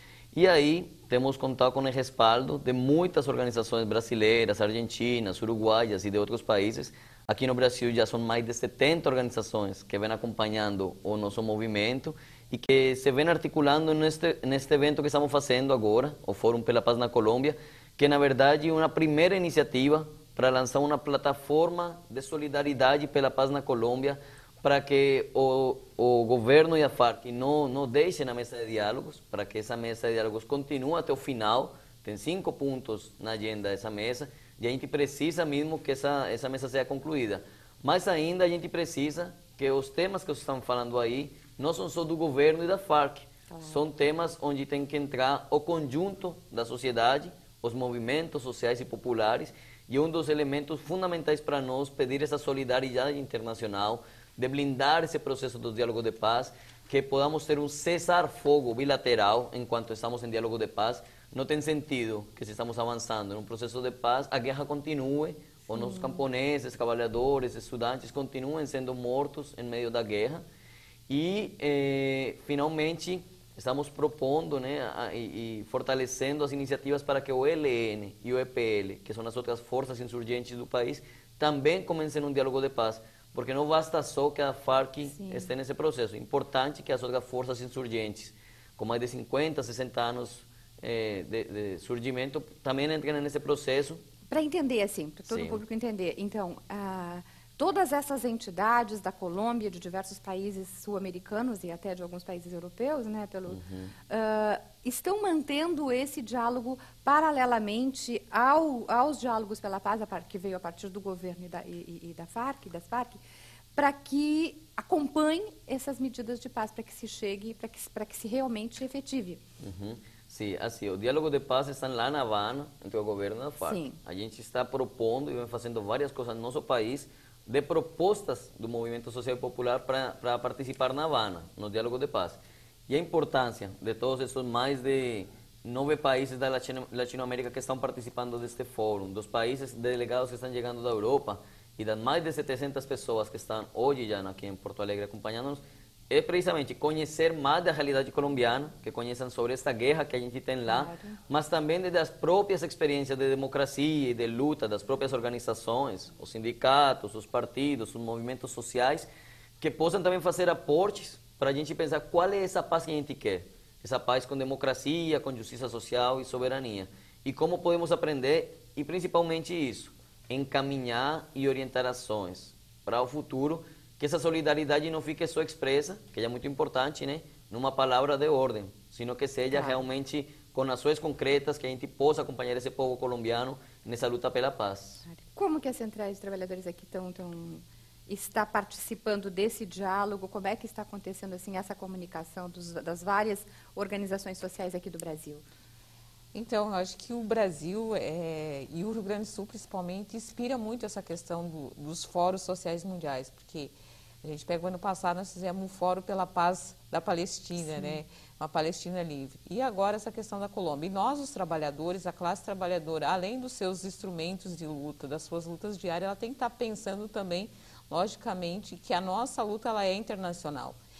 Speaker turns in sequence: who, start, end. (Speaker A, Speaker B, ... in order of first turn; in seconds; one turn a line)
Speaker A: 0.3-70.4
Speaker B: 43.5-43.8
Speaker B: 65.8-66.2
Speaker A: 71.1-94.0
Speaker B: 85.0-85.5
Speaker B: 94.3-113.2
Speaker A: 95.3-95.6
Speaker A: 103.5-103.9
Speaker B: 113.8-119.4
Speaker A: 119.6-159.1
Speaker B: 123.6-124.0
Speaker B: 150.7-151.2
Speaker A: 159.6-185.0
Speaker B: 179.5-179.8
Speaker B: 185.1-195.4
Speaker C: 196.3-220.8
Speaker B: 207.6-208.0